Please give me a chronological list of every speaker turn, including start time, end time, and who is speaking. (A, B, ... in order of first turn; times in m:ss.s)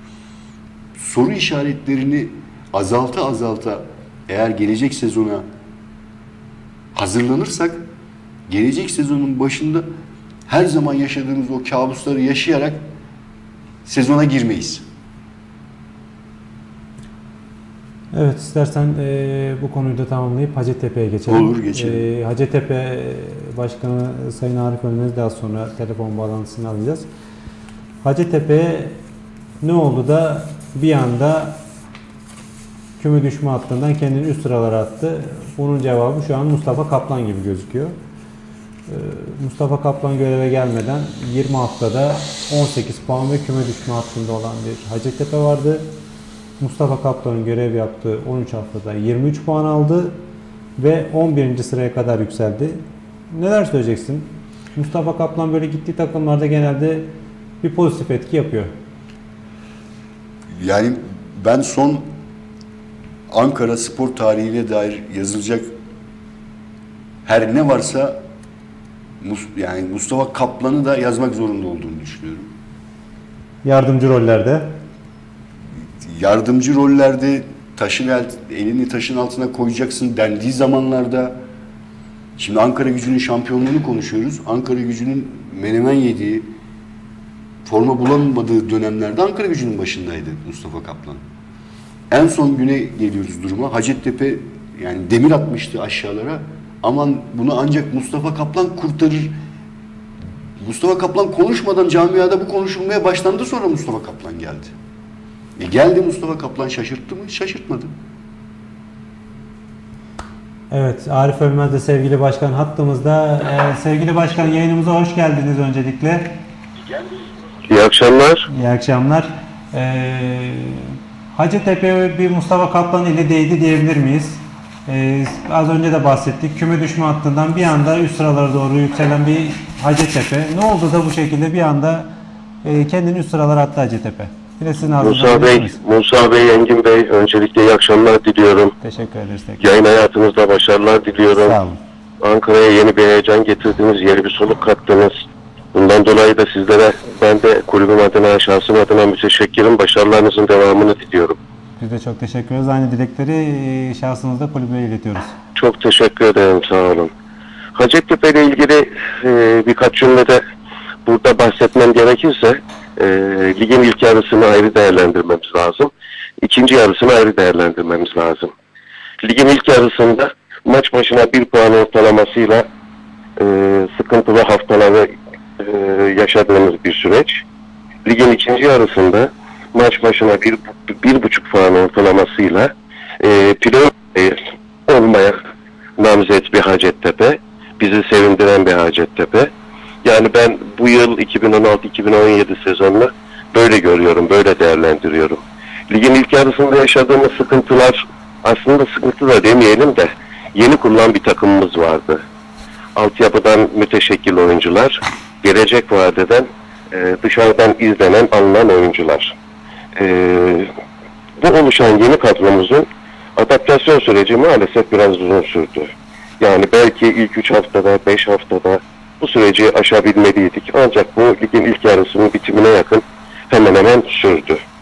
0:01.0-0:05.5 A
0:06.9-0:07.9 A
0:08.5-0:09.9 A
0:10.5-0:12.8 A
0:13.9-0:14.8 A
0:18.1-0:27.0 B
0:21.3-0:22.1 A
0:28.0-0:29.0 B
0:29.6-0:31.6 B
0:33.0-0:37.9 B
0:38.9-0:45.9 B
0:46.6-0:50.2 B
0:50.8-0:57.1 B
0:57.6-0:58.7 B
1:00.6-1:02.1 A
1:03.3-1:05.7 A
1:07.2-1:08.2 A
1:09.2-1:12.5 A
1:13.6-1:14.7 B
1:16.0-1:21.4 A
1:22.4-1:26.5 A
1:27.6-1:31.2 A
1:32.1-1:39.4 A
1:40.6-1:44.7 A
1:45.6-1:47.9 A
1:50.7-1:56.4 B
1:57.7-1:58.5 C
1:58.5-2:12.1 B
2:12.6-2:15.8 B
2:15.0-2:18.7 C
2:18.8-2:19.8 B
2:19.6-2:21.6 C
2:21.3-2:21.8 B
2:22.2-2:25.2 C
2:25.7-2:31.4 C
2:31.8-2:35.4 B
2:35.6-2:37.1 C
2:37.8-2:40.4 C
2:41.1-2:48.5 C
2:49.2-2:52.7 C
2:53.4-2:57.4 C
2:58.0-3:05.4 C
3:06.0-3:09.5 C
3:10.0-3:22.2 C
3:23.0-3:29.4 C
3:30.0-3:30.7 C
3:31.4-3:44.6 C